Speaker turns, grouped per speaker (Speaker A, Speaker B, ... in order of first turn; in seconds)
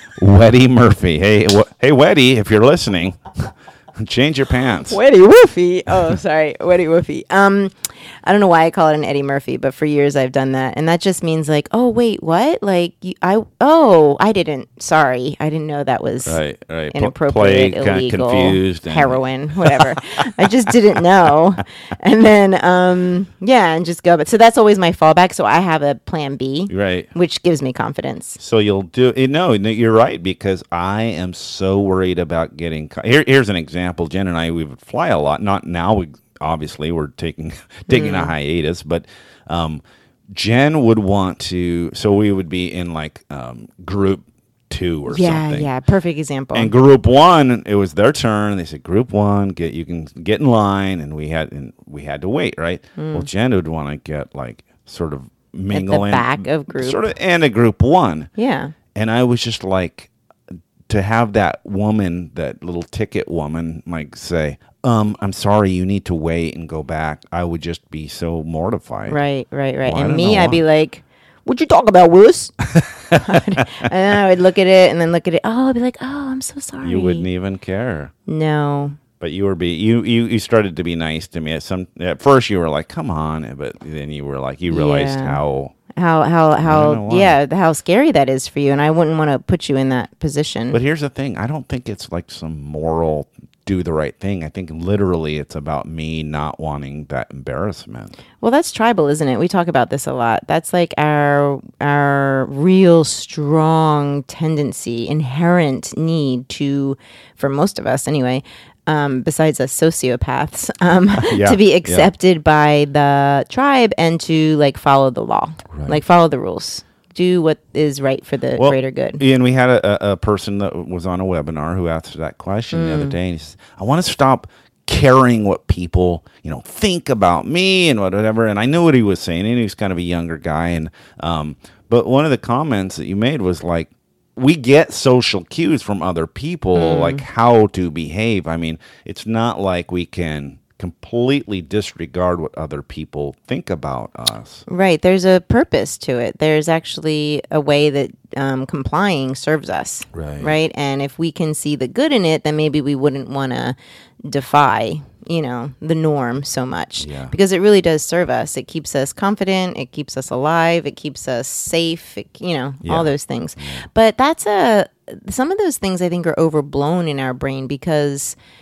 Speaker A: 0.2-3.2, 4.0-5.0, 16.2-19.2, 26.7-27.1, 28.4-45.7, 46.5-58.3, 58.9-60.1, 60.9-69.2, 69.8-70.6, 72.7-73.1, 76.8-78.1, 79.2-85.7, 86.6-87.4, 90.7-98.2, 111.2-112.1, 115.7-116.0, 118.5-144.6, 150.1-150.6, 157.0-157.3, 162.8-163.9
Speaker B: 4.8-28.4, 37.9-38.3, 45.1-46.7, 53.0-53.3, 55.7-57.0, 58.4-58.7, 69.1-72.6, 73.1-77.3, 78.2-79.0, 84.7-85.4, 85.9-90.8, 98.4-119.2, 122.7-123.2, 136.7-137.2, 144.7-168.3